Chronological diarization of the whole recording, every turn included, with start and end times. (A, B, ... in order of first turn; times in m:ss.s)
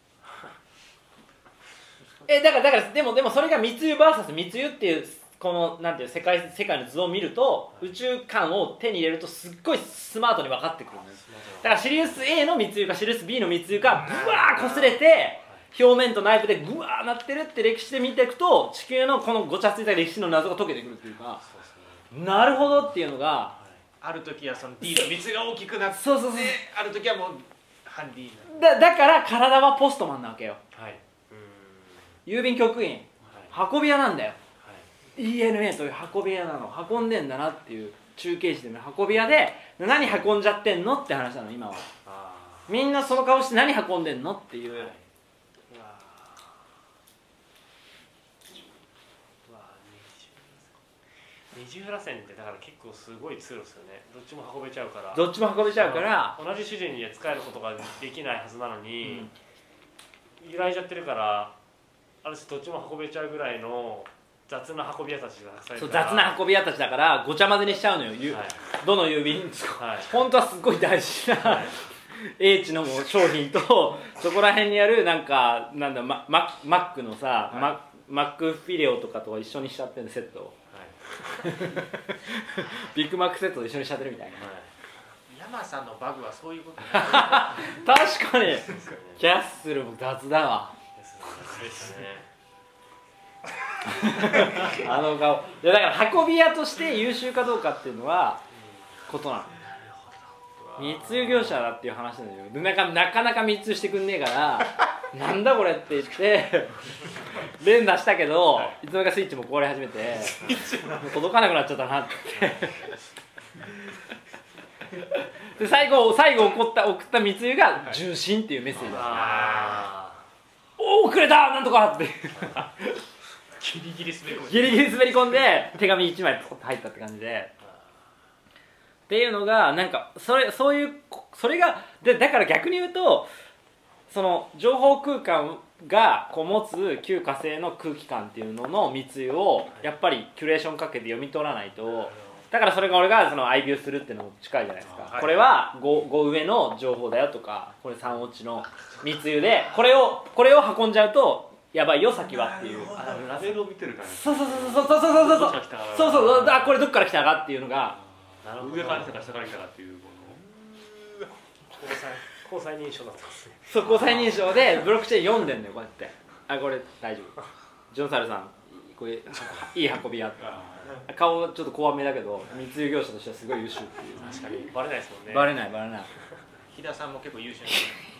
0:02.2-0:21.4 A
0:11.2-0:11.8 B
0:14.6-0:15.6 B
0:21.4-0:22.1 B
0:22.1-0:23.6 A
0:23.6-0:23.8 B
0:24.0-0:28.6 C
0:25.9-0:26.6 A
0:28.5-0:30.6 A
0:30.7-0:32.0 B
0:32.2-0:34.4 A
0:33.2-0:33.5 B
0:34.6-0:34.9 B
0:35.2-0:41.9 A
0:42.0-0:42.7 B
0:42.7-0:44.9 A
0:44.8-0:45.0 B
0:45.7-0:46.1 B
0:49.4-0:50.7 B
0:51.5-0:59.3 B
0:55.1-0:56.4 A
0:59.0-0:59.3 A
1:00.4-1:01.6 B
1:02.2-1:06.4 B
1:05.8-1:20.6 A
1:08.3-1:08.6 B
1:09.8-1:10.1 B
1:11.4-1:11.8 B
1:20.7-1:21.0 B
1:21.4-1:24.5 A
1:24.4-1:24.7 B
1:25.3-1:27.7 C
1:26.9-1:30.8 A
1:28.5-1:29.2 B
1:31.0-1:32.3 B
1:33.8-1:38.4 A
1:38.5-1:41.6 B
1:39.1-1:39.6 A
1:40.6-1:41.1 D
1:40.8-1:46.8 A
1:47.4-1:52.9 A
1:52.3-1:52.6 B
1:55.4-1:59.4 A
1:58.8-2:00.2 B
1:59.0-1:59.9 C
2:00.8-2:03.0 A
2:03.6-2:05.2 C
2:04.5-2:07.5 A
2:09.1-2:13.3 A
2:14.1-2:33.0 A
2:24.9-2:25.3 B
2:25.1-2:25.5 C
2:32.8-2:36.8 D
2:34.0-2:38.0 A
2:38.4-2:39.6 B
2:38.4-2:40.4 D
2:41.7-2:44.5 B
2:43.7-2:47.4 A
2:47.9-2:54.3 A
2:50.4-2:50.9 D
2:54.2-2:55.6 B
2:54.2-2:54.6 C
2:55.3-2:56.1 A
2:56.7-2:58.0 C
2:57.7-2:58.0 A